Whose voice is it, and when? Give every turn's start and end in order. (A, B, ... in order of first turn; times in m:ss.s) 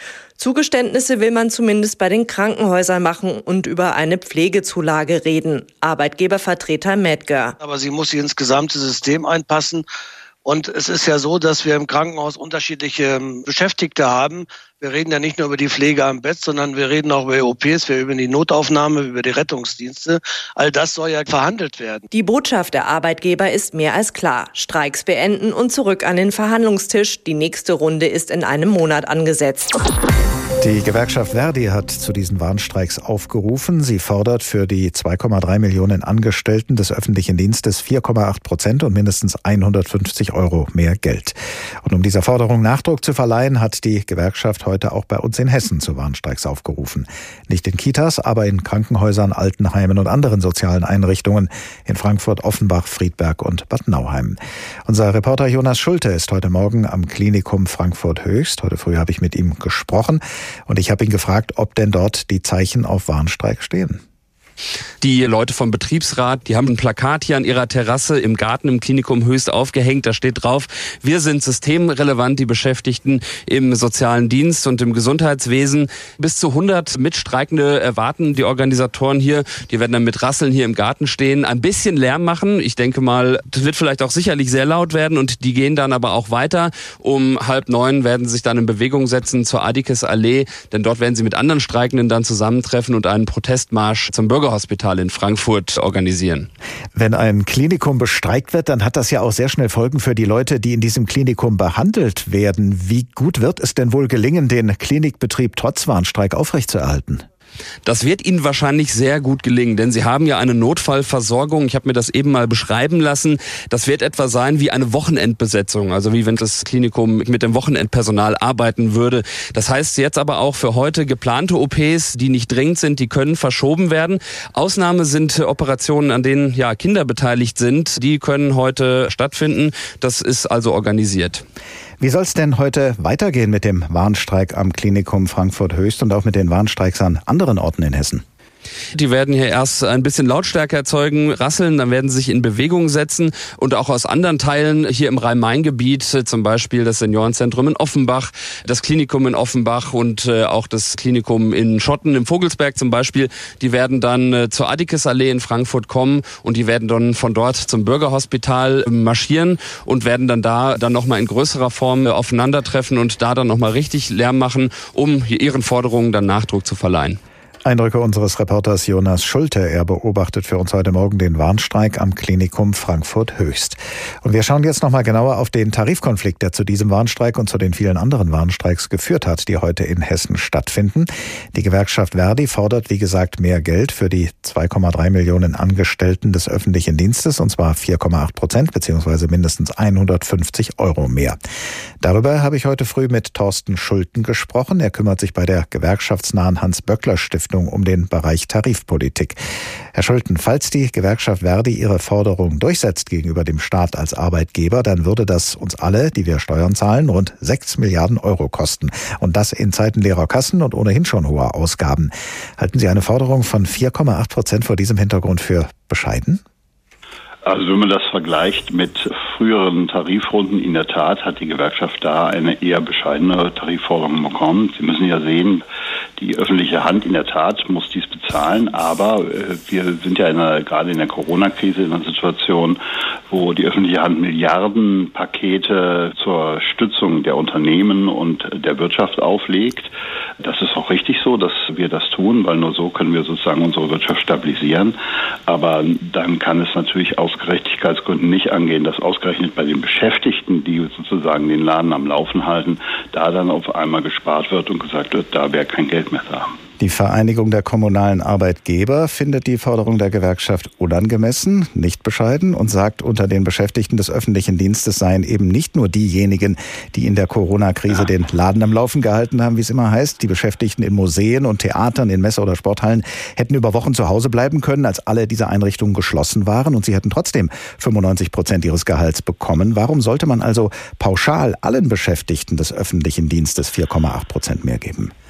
0:00.4-0:07.5 A
0:07.6-0:09.8 B
0:10.4-0:22.0 B
0:22.1-0:29.7 A
0:30.6-1:04.0 C
1:05.0-1:36.5 D
1:36.9-1:47.2 C
1:47.8-2:11.4 D
2:12.0-2:18.2 C
2:19.0-2:47.2 D
2:47.6-3:11.4 C
3:12.0-3:19.4 C
3:19.9-3:36.4 C
3:37.4-3:45.6 E
3:46.2-3:52.8 E
3:53.3-3:59.9 E
4:00.4-4:04.9 E
4:05.5-4:16.5 E
4:16.8-4:45.1 C